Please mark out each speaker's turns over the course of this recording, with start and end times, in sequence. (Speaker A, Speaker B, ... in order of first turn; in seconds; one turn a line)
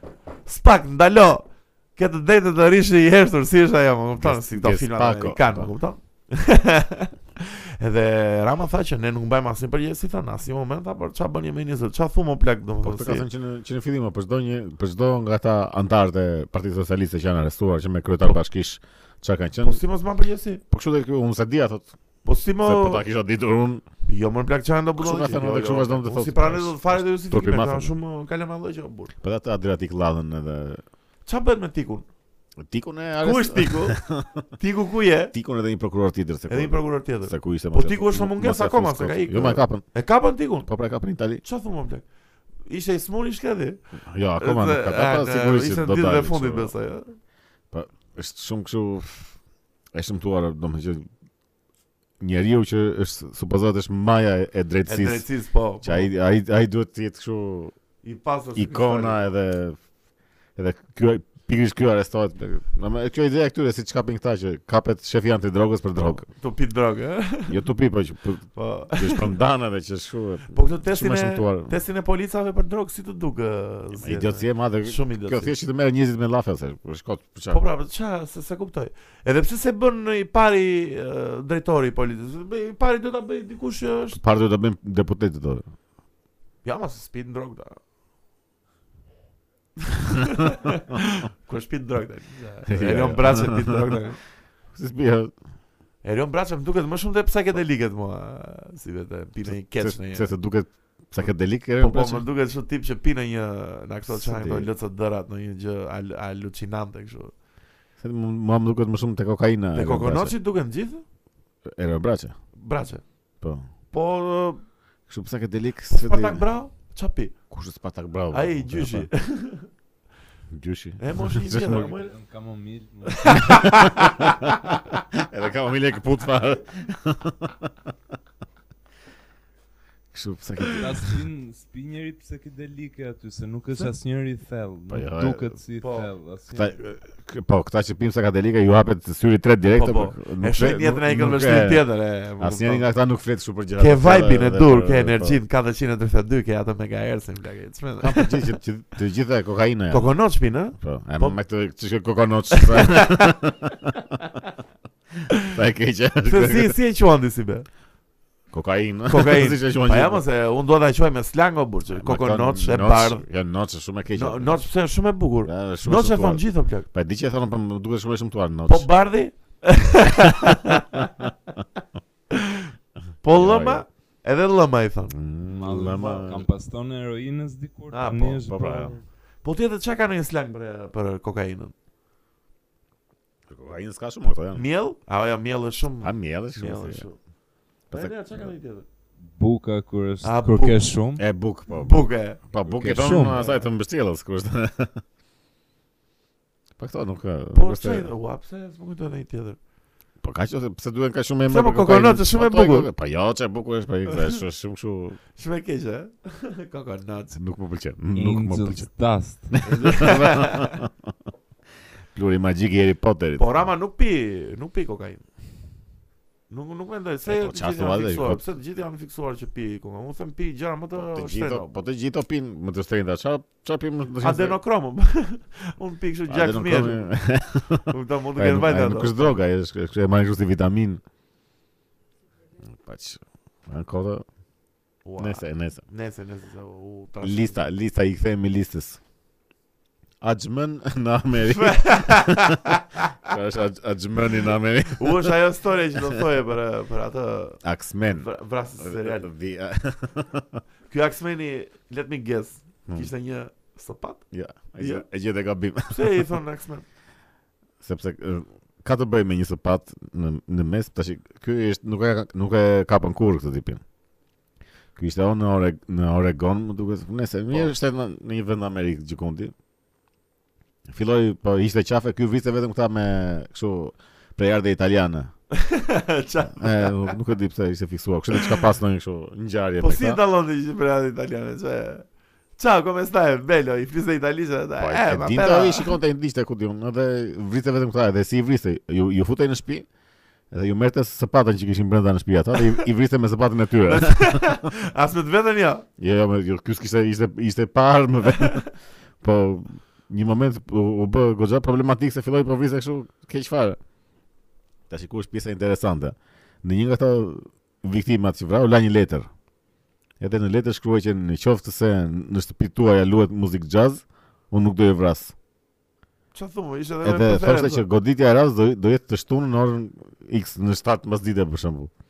Speaker A: 0.5-13.2
Speaker B: 4.2-5.7
Speaker B: 12.8-19.8
Speaker A: 19.6-20.6
Speaker B: 20.7-21.9
Speaker A: 22.2-23.0
Speaker B: 22.6-23.8
Speaker A: 24.1-29.1
Speaker B: 25.0-27.9
Speaker B: 29.2-30.8
Speaker A: 31.2-32.0
Speaker B: 32.6-34.4
Speaker A: 33.2-34.0
Speaker A: 34.6-35.3
Speaker B: 35.3-39.8
Speaker A: 36.5-40.7
Speaker B: 40.6-41.4
Speaker A: 41.4-42.0
Speaker A: 42.6-43.8
Speaker B: 44.0-46.7
Speaker A: 44.4-47.1
Speaker B: 47.7-49.3
Speaker B: 49.9-51.0
Speaker B: 52.2-55.2
Speaker A: 54.9-56.1
Speaker B: 55.8-57.7
Speaker A: 58.0-59.2
Speaker B: 58.5-59.8
Speaker B: 60.5-66.2
Speaker A: 66.0-67.6
Speaker B: 67.5-71.7
Speaker A: 68.5-69.3
Speaker A: 70.5-75.5
Speaker B: 74.0-77.6
Speaker A: 77.5-84.2
Speaker B: 84.1-85.7
Speaker A: 86.6-87.8
Speaker A: 89.9-94.2
Speaker B: 92.7-94.0
Speaker B: 94.7-95.3
Speaker A: 96.0-100.3
Speaker B: 99.5-102.2
Speaker A: 101.8-107.3
Speaker B: 104.1-104.7
Speaker B: 108.0-110.3
Speaker A: 109.7-111.0
Speaker B: 111.6-112.3
Speaker A: 112.5-113.0
Speaker A: 113.9-114.6
Speaker B: 115.1-116.4
Speaker A: 115.9-117.4
Speaker B: 117.5-119.1
Speaker A: 118.3-119.7
Speaker B: 120.5-121.9
Speaker A: 121.0-122.1
Speaker C: 121.6-123.5
Speaker A: 123.1-125.0
Speaker B: 123.3-124.2
Speaker B: 125.1-127.7
Speaker B: 130.1-131.2
Speaker C: 130.7-136.8
Speaker B: 134.9-135.6
Speaker A: 135.8-136.1
Speaker B: 136.5-141.8
Speaker A: 139.7-142.8
Speaker B: 142.4-145.4
Speaker A: 143.8-148.4
Speaker B: 148.0-150.1
Speaker A: 149.9-151.4
Speaker B: 150.8-153.9
Speaker A: 152.5-153.4
Speaker B: 155.4-156.8
Speaker A: 156.2-157.7
Speaker B: 158.5-160.2
Speaker A: 159.1-163.2
Speaker B: 161.9-164.6
Speaker A: 164.1-166.8
Speaker B: 165.4-168.9
Speaker A: 168.7-171.1
Speaker A: 172.3-172.7
Speaker A: 173.2-175.2
Speaker B: 173.3-173.8
Speaker B: 175.1-176.4
Speaker C: 175.5-178.9
Speaker A: 177.9-178.9
Speaker B: 178.5-178.9
Speaker A: 179.4-181.7
Speaker B: 183.5-184.6
Speaker A: 184.5-187.2
Speaker B: 186.0-187.0
Speaker B: 187.9-188.5
Speaker A: 187.9-188.8
Speaker C: 189.2-191.2
Speaker A: 190.2-190.9
Speaker B: 191.2-195.0
Speaker A: 191.7-192.4
Speaker C: 192.6-193.4
Speaker A: 193.3-193.6
Speaker B: 196.8-198.1
Speaker A: 197.5-199.6
Speaker B: 200.2-205.2
Speaker A: 201.5-202.9
Speaker A: 204.1-204.4
Speaker A: 205.3-207.4
Speaker B: 207.3-208.9
Speaker C: 208.1-209.7
Speaker B: 209.5-210.9
Speaker A: 209.7-210.8
Speaker B: 212.1-213.7
Speaker A: 213.4-215.2
Speaker A: 216.5-221.8
Speaker B: 217.2-218.4
Speaker B: 220.9-224.6
Speaker A: 224.2-227.1
Speaker B: 226.3-231.0
Speaker A: 227.9-229.3
Speaker B: 232.6-234.2
Speaker A: 235.0-237.6
Speaker B: 235.2-235.8
Speaker B: 237.2-239.0
Speaker B: 240.2-245.4
Speaker A: 241.4-243.3
Speaker A: 244.9-247.6
Speaker B: 247.6-248.3
Speaker A: 248.1-249.3
Speaker B: 248.8-250.6
Speaker A: 250.9-254.2
Speaker B: 254.3-256.2
Speaker A: 254.8-255.1
Speaker A: 255.9-256.8
Speaker B: 257.8-263.8
Speaker B: 264.9-269.5
Speaker B: 270.9-275.3
Speaker A: 275.5-277.1
Speaker B: 276.5-280.2
Speaker A: 278.3-278.6
Speaker A: 279.8-282.1
Speaker A: 282.6-285.9
Speaker B: 284.8-289.9
Speaker B: 290.5-294.6
Speaker A: 293.9-295.8
Speaker B: 296.0-298.6
Speaker B: 299.2-303.8
Speaker B: 304.9-309.3
Speaker B: 310.2-315.3
Speaker A: 316.3-317.8
Speaker B: 317.0-321.9